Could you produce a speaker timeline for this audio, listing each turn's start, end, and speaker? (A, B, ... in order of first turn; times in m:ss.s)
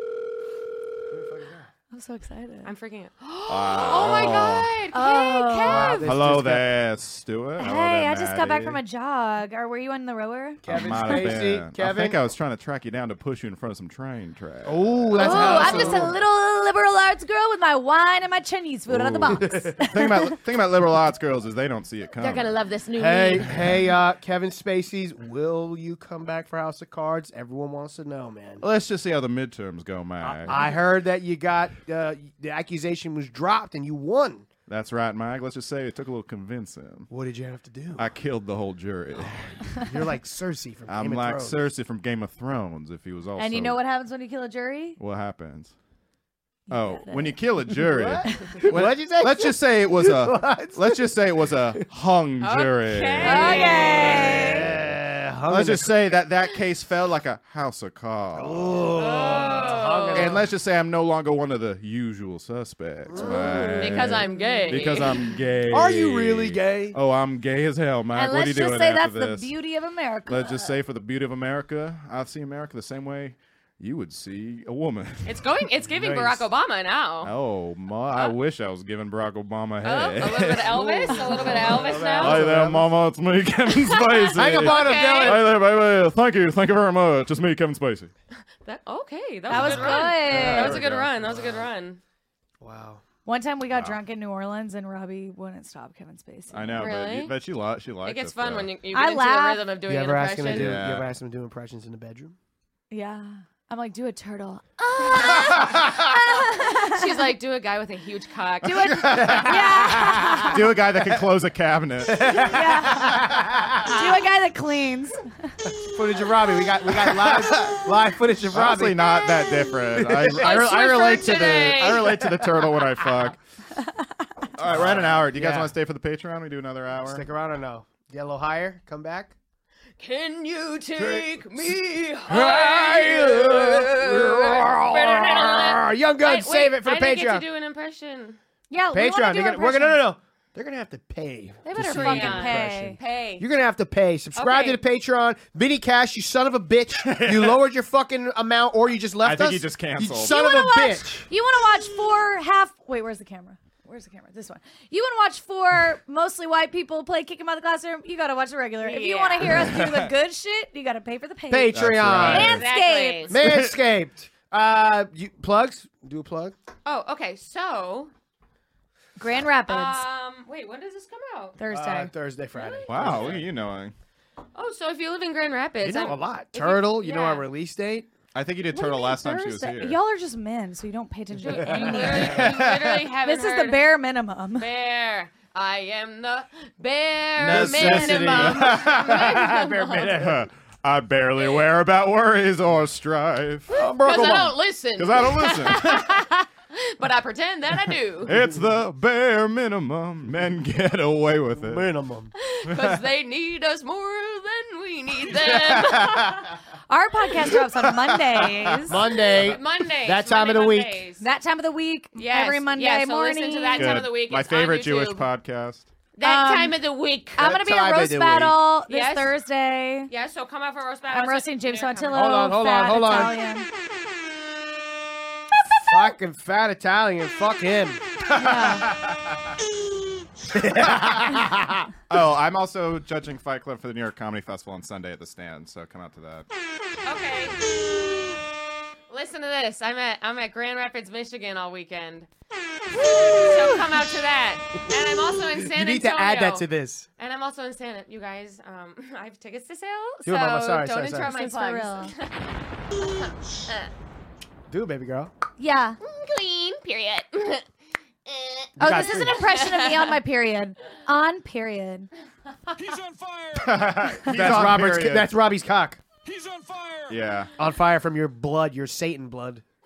0:01.1-0:01.7 A
0:01.9-0:02.7 B
0:02.6-0:06.1 C
0:03.5-0:04.7 D
0:04.9-0:06.1 B
0:05.6-0:06.7 A
0:06.0-0:08.8 D
0:07.6-0:11.3 B
0:10.6-0:12.2 A
0:10.6-0:16.1 D
0:14.6-0:16.2 A
0:15.2-0:20.4 B
0:15.3-0:16.1 C
0:18.9-0:22.5 D
0:19.4-0:19.8 A
0:22.2-0:23.4 C
0:22.9-0:28.6 A
0:23.1-0:23.4 B
0:28.6-0:30.7 D
0:30.2-0:34.4 A
0:34.7-0:37.1 D
0:37.1-0:38.0 A
0:37.9-0:39.8 D
0:39.2-0:41.6 A
0:40.9-0:43.8 D
0:43.4-0:45.0 B
0:45.0-0:45.7 D
0:46.7-0:47.4 B
0:46.7-0:58.7 D
0:47.8-0:51.1 A
0:48.3-0:48.6 B
0:52.4-0:54.6 C
0:53.2-0:54.7 B
0:53.6-0:56.0 A
0:58.3-1:00.4 A
0:58.9-1:00.4 C
1:00.1-1:09.5 D
1:03.1-1:05.0 A
1:03.1-1:05.3 C
1:05.7-1:07.0 A
1:08.1-1:10.7 B
1:10.3-1:15.4 D
1:15.2-1:17.3 C
1:15.9-1:16.5 A
1:17.2-1:28.1 D
1:19.8-1:22.4 C
1:20.6-1:22.9 A
1:23.6-1:25.5 C
1:24.3-1:25.4 A
1:28.6-1:32.0 C
1:29.5-1:30.8 B
1:29.5-1:31.1 D
1:29.6-1:31.6 A
1:32.6-1:33.0 A
1:33.2-1:37.0 B
1:33.7-1:34.0 D
1:36.5-1:38.7 D
1:36.8-1:37.3 C
1:38.0-1:40.8 C
1:38.9-1:39.6 B
1:39.9-1:42.3 A
1:40.4-1:41.1 D
1:42.9-1:47.3 B
1:45.0-1:49.1 C
1:45.2-1:45.9 D
1:48.6-1:50.6 B
1:48.7-1:49.8 D
1:49.1-1:51.2 A
1:50.4-1:53.0 D
1:52.0-1:53.9 A
1:52.3-1:55.5 B
1:53.8-1:54.3 C
1:55.6-1:59.0 A
1:56.9-1:57.9 D
1:58.5-2:03.4 D
1:59.2-1:59.7 B
1:59.9-2:00.5 A
2:00.3-2:02.2 C
2:02.2-2:03.2 A
2:03.8-2:04.1 B
2:04.5-2:07.2 D
2:04.7-2:05.7 A
2:07.0-2:09.3 A
2:10.0-2:18.4 C
2:10.9-2:11.7 A
2:12.2-2:17.4 A
2:18.7-2:20.0 B
2:18.9-2:31.3 A
2:21.6-2:23.0 B
2:21.8-2:23.4 C
2:24.4-2:24.8 C
2:27.0-2:27.6 D
2:29.2-2:30.4 D
2:30.2-2:43.4 B
2:38.8-2:39.6 C
2:39.4-2:40.1 D
2:41.5-2:42.6 A
2:41.7-2:42.7 D
2:42.2-2:43.4 C
2:43.3-2:46.5 A
2:43.4-2:43.8 D
2:46.8-2:48.1 C
2:49.2-2:50.0 B
2:49.6-2:51.6 C
2:51.6-2:52.1 B
2:51.7-2:53.4 A
2:52.5-2:53.4 C
2:52.9-2:53.9 D
2:54.5-2:57.5 C
2:55.8-2:58.1 A
2:58.3-3:00.0 D
2:58.7-3:02.7 B
3:01.3-3:04.0 C
3:01.6-3:02.4 A
3:02.3-3:03.0 D
3:03.2-3:04.7 B
3:04.5-3:10.3 C
3:07.4-3:10.4 A
3:07.4-3:09.4 D
3:10.1-3:13.7 D
3:13.7-3:14.6 A
3:13.8-3:18.4 C
3:15.0-3:16.1 D
3:18.2-3:21.9 D
3:21.6-3:22.3 A
3:22.4-3:26.5 C
3:22.7-3:23.0 D
3:25.3-3:26.5 D
3:26.9-3:29.0 B
3:27.4-3:29.6 D
3:28.9-3:31.0 A
3:29.3-3:31.2 C
3:31.2-3:34.0 B
3:32.2-3:35.3 C
3:33.7-3:35.9 D
3:36.2-3:37.5 C
3:36.2-3:36.8 B
3:37.4-3:40.1 B
3:37.4-3:38.6 A
3:38.9-3:39.4 C
3:40.1-3:42.3 C
3:41.1-3:43.7 B
3:42.1-3:43.4 A
3:45.8-3:48.0 A
3:48.3-3:49.6 D
3:48.3-3:48.9 B
3:50.5-3:51.9 A
3:50.8-3:51.3 D
3:52.1-3:56.5 D
3:57.0-3:57.6 C
3:59.1-4:02.3 C
4:02.9-4:04.2 A
4:03.2-4:06.7 C
4:04.9-4:07.1 A
4:07.2-4:12.4 C
4:10.2-4:11.3 A
4:11.1-4:12.1 B
4:13.0-4:13.9 C
4:14.7-4:15.3 A
4:15.6-4:16.0 B
4:16.0-4:17.6 C
4:18.3-4:20.2 C
4:18.8-4:19.4 A
4:18.8-4:22.1 B
4:22.8-4:24.0 E
4:23.6-4:25.3 D
4:24.2-4:26.0 A
4:26.2-4:27.2 E
4:27.1-4:27.5 D
4:27.6-4:29.6 A